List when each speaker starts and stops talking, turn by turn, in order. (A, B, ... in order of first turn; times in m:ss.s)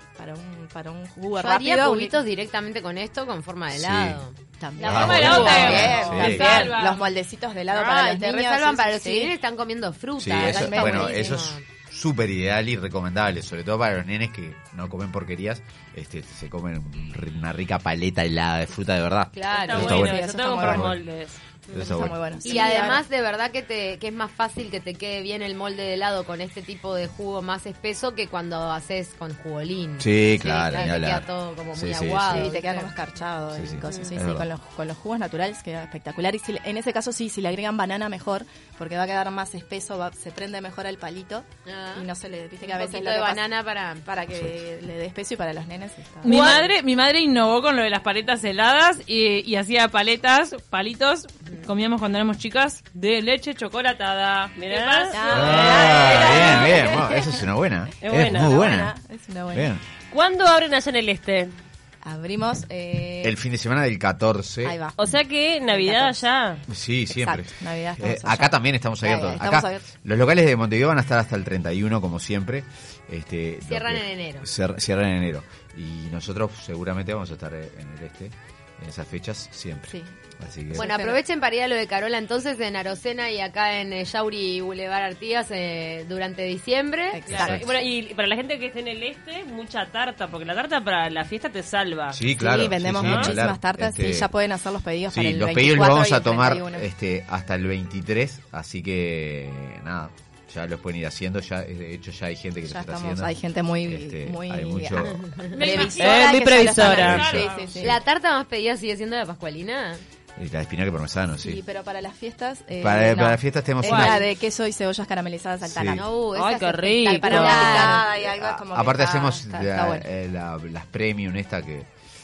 0:00.2-0:02.2 A
0:01.3-0:04.4 B
0:03.7-0:04.2 C
0:04.6-0:09.4 A
0:04.8-0:07.0 D
0:04.9-0:06.8 C
0:05.3-0:05.8 B
0:07.7-0:11.6 B
0:10.2-0:21.0 C
0:10.4-0:11.4 A
0:19.3-0:20.2 B
0:19.5-0:21.4 E
0:20.0-0:21.0 A
0:21.7-0:22.4 C
0:21.7-0:23.1 A
0:22.4-0:33.0 B
0:30.0-0:31.2 C
0:31.8-0:32.5 C
0:32.2-0:43.5 A
0:33.5-0:34.5 C
0:33.8-0:34.2 B
0:41.6-0:42.1 B
0:42.6-0:44.2 B
0:44.1-0:46.6 A
0:46.2-0:57.1 D
0:46.3-0:46.6 E
0:54.6-0:57.0 E
0:55.1-0:57.2 A
0:55.3-0:58.9 C
0:58.0-0:58.6 E
0:58.2-0:59.7 A
0:59.5-0:59.8 C
1:00.1-1:01.6 E
1:02.0-1:03.4 A
1:03.2-1:04.8 C
1:04.6-1:05.1 A
1:05.0-1:06.6 E
1:05.7-1:06.2 A
1:06.7-1:20.9 C
1:07.1-1:09.8 A
1:13.6-1:14.5 B
1:20.7-1:21.2 A
1:20.7-1:27.4 B
1:27.1-1:27.6 A
1:27.3-1:32.2 E
1:27.4-1:27.7 C
1:32.1-1:34.3 C
1:32.4-1:36.9 A
1:33.0-1:33.4 E
1:35.1-1:45.2 C
1:42.6-1:48.0 A
1:45.0-1:45.8 B
1:45.5-1:47.8 D
1:45.7-1:47.5 E
1:46.8-1:48.0 C
1:47.8-1:50.0 B
1:50.4-1:51.6 C
1:51.4-1:56.1 A
1:52.8-1:54.3 C
1:53.8-1:54.2 E
1:55.6-1:56.0 C
1:55.9-1:58.1 B
1:56.3-1:58.1 E
1:57.2-2:00.1 A
1:58.2-2:01.9 C